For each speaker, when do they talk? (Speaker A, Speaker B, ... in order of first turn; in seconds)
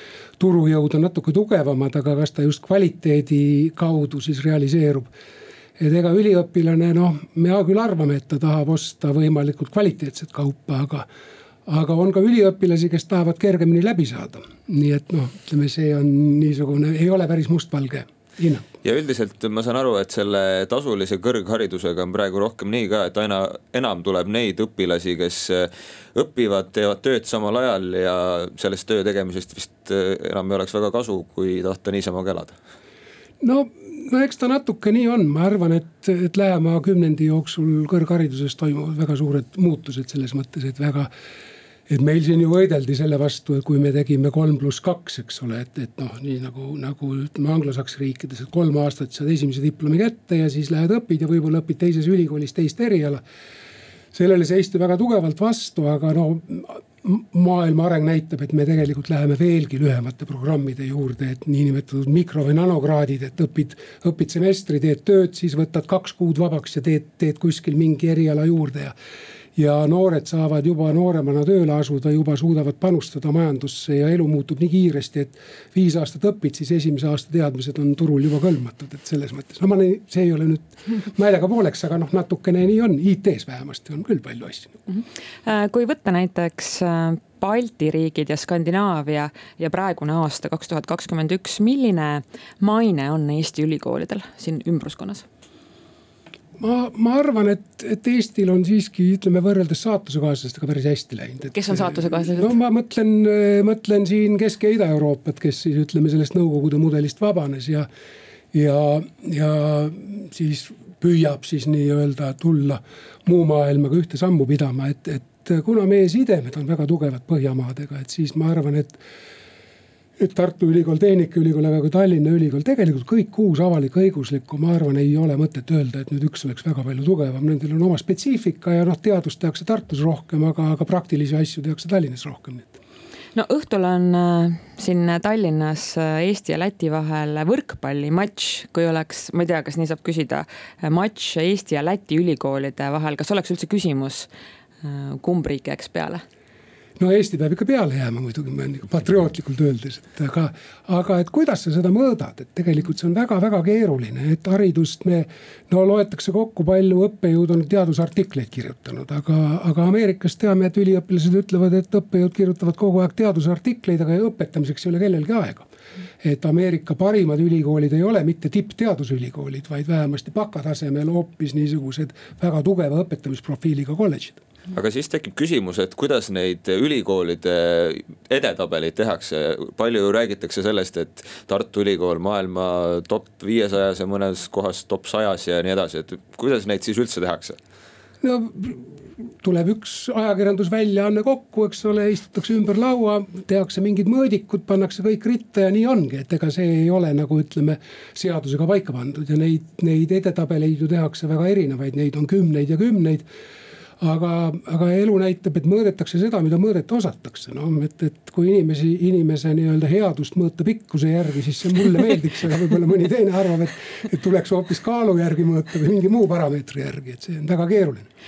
Speaker A: 0.4-5.1, 5.8-11.1, 11.7-18.7, 33.4-41.1, 41.9-53.2, 54.1-68.9, 69.5-84.8, 96.6-107.9, 108.5-119.0, 120.2-132.8, 147.0-165.7, 166.2-174.4, 188.2-203.2, 204.0-218.1
Speaker B: 18.8-32.5, 174.7-187.6
Speaker C: 84.9-95.2, 101.5-102.5, 133.3-144.3, 144.8-146.2